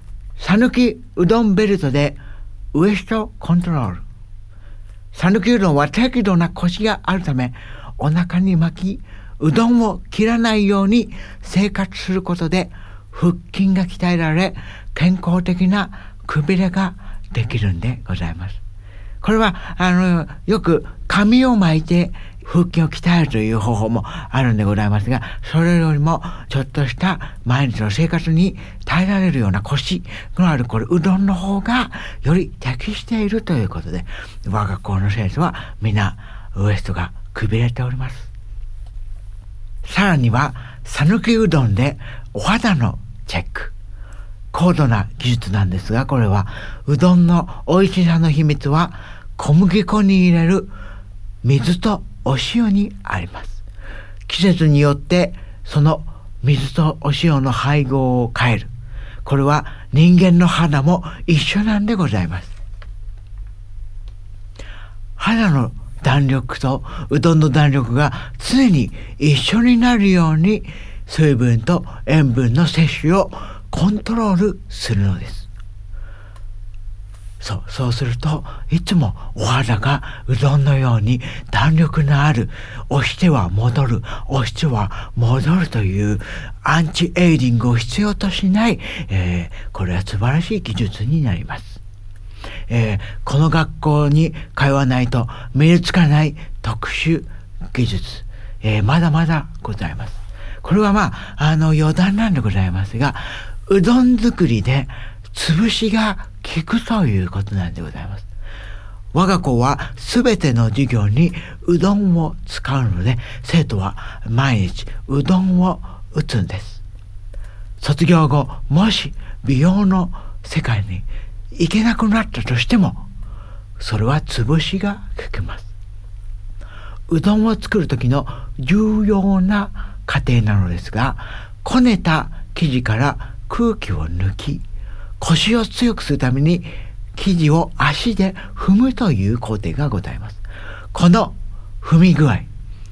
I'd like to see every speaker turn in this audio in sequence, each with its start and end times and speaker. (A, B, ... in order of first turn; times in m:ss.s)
0:00.4-0:02.2 A
0:02.7-0:04.0 A
0:05.1-0:18.6 A
0:19.2-0:38.3 A
0:39.8-0:43.7 A
0:44.5-0:50.7 A
0:51.4-0:53.6 A
0:54.3-0:58.7 A
0:59.2-1:02.5 A
1:05.2-1:15.5 A
1:17.4-1:31.8 A
1:32.7-1:48.3 A
1:49.1-1:56.8 A
1:57.8-2:03.1 A
2:03.8-2:05.7 A
2:07.1-2:14.6 A
2:15.2-2:22.5 A